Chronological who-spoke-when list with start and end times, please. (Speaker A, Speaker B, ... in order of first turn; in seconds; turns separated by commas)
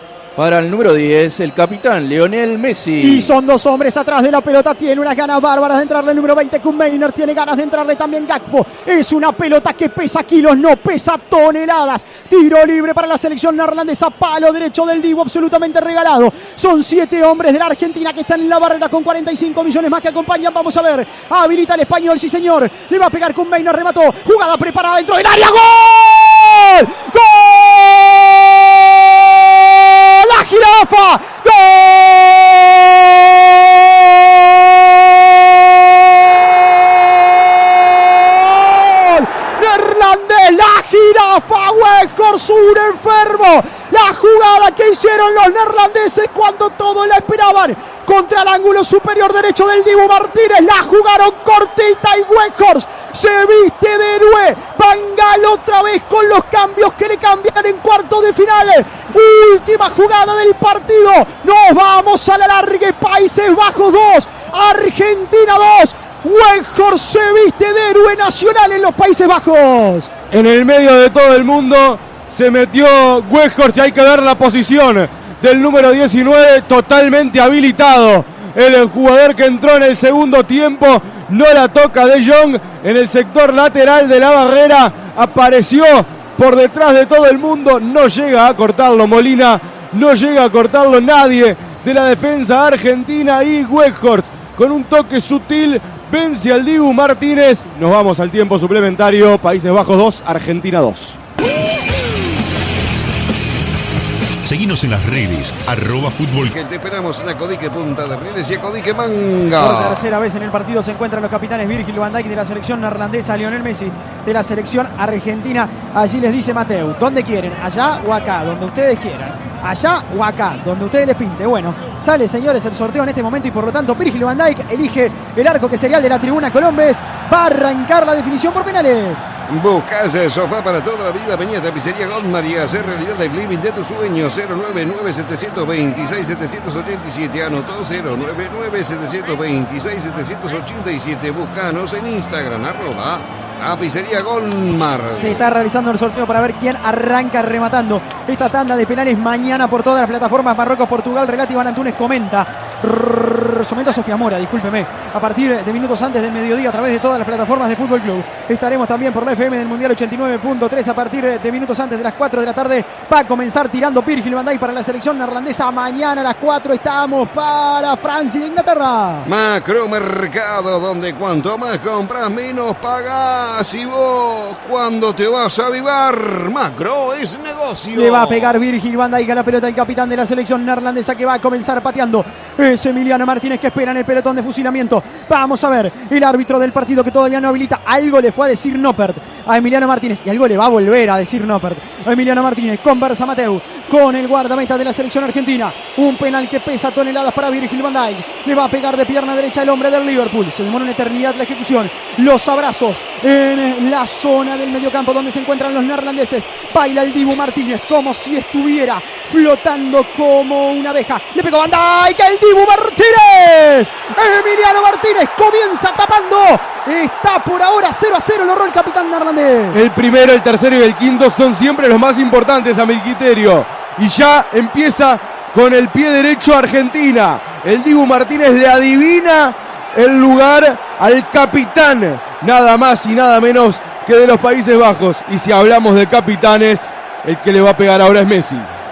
Speaker A: 0.4-3.3, Speaker B: 3.0-70.1, Speaker C: 70.3-101.2, Speaker D: 104.4-106.5, Speaker E: 106.5-110.0, Speaker B: 109.6-129.2, Speaker E: 129.5-145.5, Speaker B: 145.2-169.3, Speaker E: 169.2-178.5, Speaker B: 177.9-219.8, Speaker C: 219.7-238.7